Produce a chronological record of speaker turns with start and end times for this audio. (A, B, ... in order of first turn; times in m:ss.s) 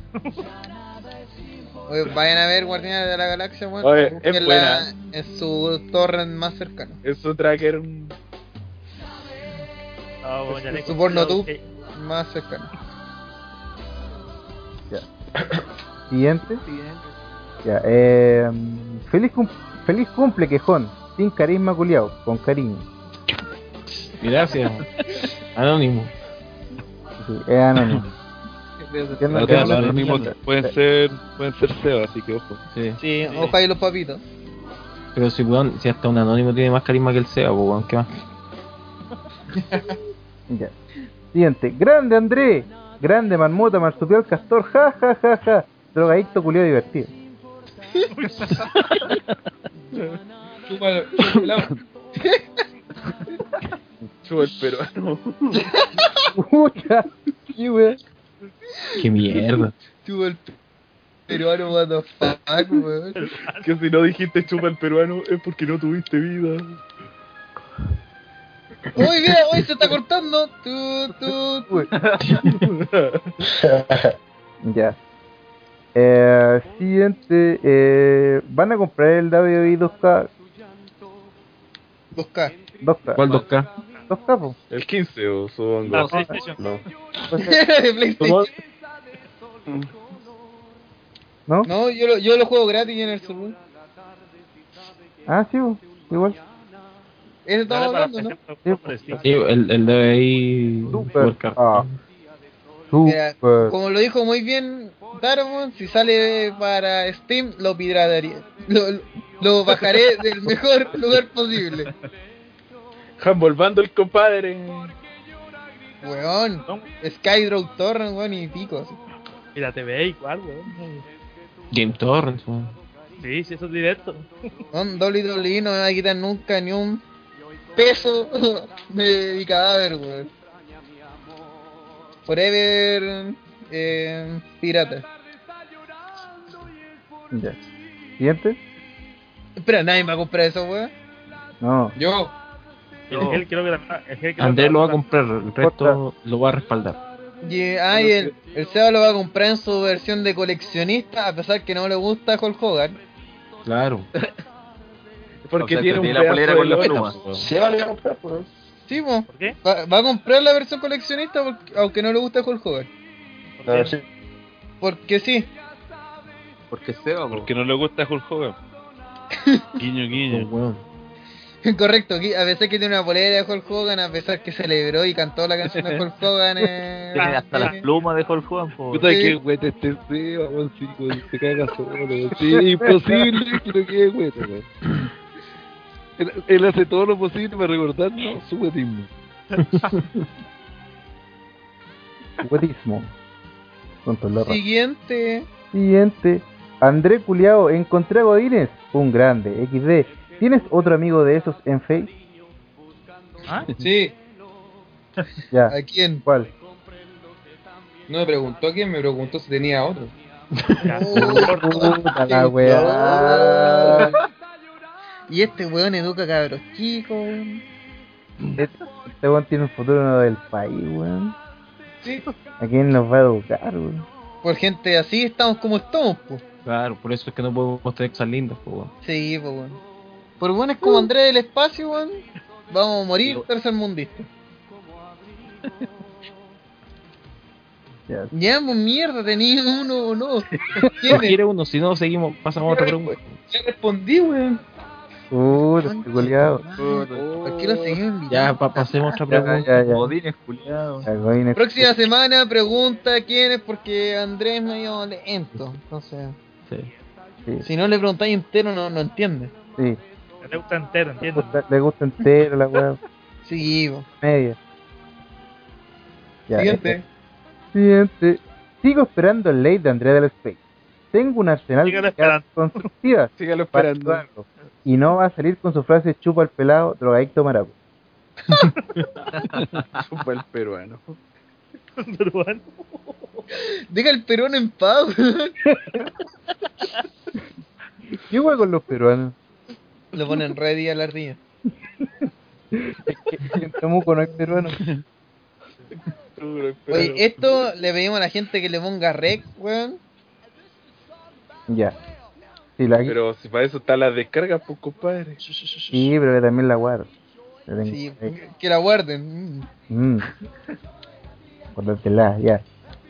0:01.9-0:07.0 A
0:03.8-0:04.9 B
0:07.0-0:08.2 B
0:10.2-0:11.6 C
0:10.6-0:12.7 A
0:16.1-0:16.6 D
0:17.6-0:22.9 D
0:24.0-0:24.9 E
0:25.6-0:26.1 E
0:27.2-0:28.1 D
0:28.8-0:29.6 F
0:29.2-0:30.7 D
0:29.3-0:32.6 G
0:29.4-0:30.2 E
0:32.7-0:33.0 E
0:33.0-0:34.2 A
0:33.3-0:33.6 C
0:35.2-0:38.1 E
0:39.6-0:39.9 H
0:40.5-0:40.7 D
0:41.3-0:47.1 D
0:48.1-0:49.0 C
0:50.7-0:51.7 H
0:51.2-0:51.5 E
0:54.2-0:55.7 B
0:55.6-0:56.3 A
0:56.3-0:58.0 D
0:59.0-0:59.7 E
1:00.0-1:00.6 A
1:01.3-1:03.2 A
1:03.2-1:03.7 C
1:03.6-1:06.8 B
1:09.0-1:11.7 A
1:12.2-1:12.5 E
1:12.4-1:13.3 B
1:13.5-1:14.2 I
1:14.6-1:15.0 D
1:16.0-1:20.3 D
1:22.2-1:22.5 A
1:22.8-1:23.2 D
1:23.2-1:23.7 E
1:24.1-1:24.6 D
1:24.7-1:26.2 B
1:25.9-1:26.6 C
1:27.3-1:27.6 D
1:27.4-1:28.5 A
1:31.6-1:33.6 A
1:35.3-1:36.4 D
1:37.5-1:38.4 A
1:37.7-1:39.3 C
1:38.6-1:39.2 D
1:39.2-1:42.0 E
1:40.9-1:41.9 D
1:42.9-1:43.7 D
1:43.0-1:51.9 A
1:53.2-1:54.9 B
1:56.0-1:59.0 A
1:59.6-2:01.0 C
2:01.7-2:02.7 E
2:03.2-2:04.3 C
2:04.7-2:07.0 A
2:07.8-2:10.3 A
2:12.3-2:15.1 A
2:17.3-2:17.6 D
2:18.2-2:18.6 D
2:19.6-2:20.9 A
2:21.6-2:21.9 D
2:22.0-2:22.4 H
2:23.1-2:25.0 C
2:24.4-2:27.0 E
2:25.6-2:26.0 D
2:27.4-2:33.0 A
2:27.9-2:28.3 B
2:33.6-2:34.1 E
2:35.4-2:37.1 B
2:35.6-2:37.2 F
2:36.0-2:37.5 E
2:37.4-2:38.5 I
2:38.9-2:42.9 A
2:39.3-2:39.6 C
2:43.6-2:44.0 C
2:43.7-2:44.0 I
2:44.8-2:45.5 A
2:46.7-2:47.5 F
2:47.3-2:48.6 G
2:49.3-2:49.7 A
2:49.8-2:50.5 G
2:50.2-2:50.8 E
2:51.6-2:57.8 A
2:57.2-2:59.1 F
2:57.2-2:57.8 C
2:58.9-3:04.7 G
2:59.1-2:59.4 A
3:02.5-3:03.4 D
3:06.2-3:09.1 G
3:09.6-3:10.2 E
3:12.4-3:13.1 D
3:14.0-3:14.6 D
3:14.4-3:15.5 A
3:15.7-3:22.1 D
3:23.4-3:23.7 C
3:23.8-3:24.2 H
3:25.5-3:26.5 D
3:25.7-3:26.2 A
3:28.1-3:30.2 H
3:30.8-3:32.0 C
3:30.8-3:34.1 A
3:31.1-3:34.1 D
3:32.6-3:34.1 I
3:35.3-3:37.6 A
3:38.6-3:41.4 D
3:42.6-3:44.1 D
3:44.4-3:46.4 A
3:46.6-3:48.9 E
3:49.0-3:49.8 A
3:50.4-3:54.3 A
3:58.3-4:00.5 A
4:01.0-4:01.4 A
4:01.1-4:03.4 E
4:03.5-4:04.6 H
4:05.3-4:06.6 D
4:05.5-4:09.2 A
4:06.8-4:07.2 F
4:07.0-4:08.0 B
4:08.3-4:09.7 E
4:09.3-4:10.1 D
4:09.7-4:11.1 F
4:11.0-4:11.9 D
4:11.6-4:16.4 A
4:17.6-4:19.5 A
4:20.4-4:21.6 C
4:21.3-4:23.0 D
4:23.4-4:24.1 A
4:24.2-4:24.6 D
4:26.5-4:27.0 D
4:26.5-4:27.0 H
4:27.7-4:30.6 D
4:31.1-4:37.7 D
4:31.8-4:32.9 C
4:33.4-4:34.2 B
4:38.8-4:39.1 C
4:39.9-4:41.2 B
4:42.0-4:43.4 C
4:43.6-4:45.6 A
4:48.3-4:49.4 D
4:50.1-4:51.4 A
4:52.7-4:54.8 D
4:56.4-4:57.7 B
4:56.9-5:00.0 A
5:01.7-5:02.0 D
5:02.8-5:03.2 D
5:03.1-5:05.4 B
5:05.9-5:07.1 D
5:07.7-5:08.3 D
5:07.9-5:09.7 A
5:09.9-5:10.3 D
5:11.8-5:12.6 D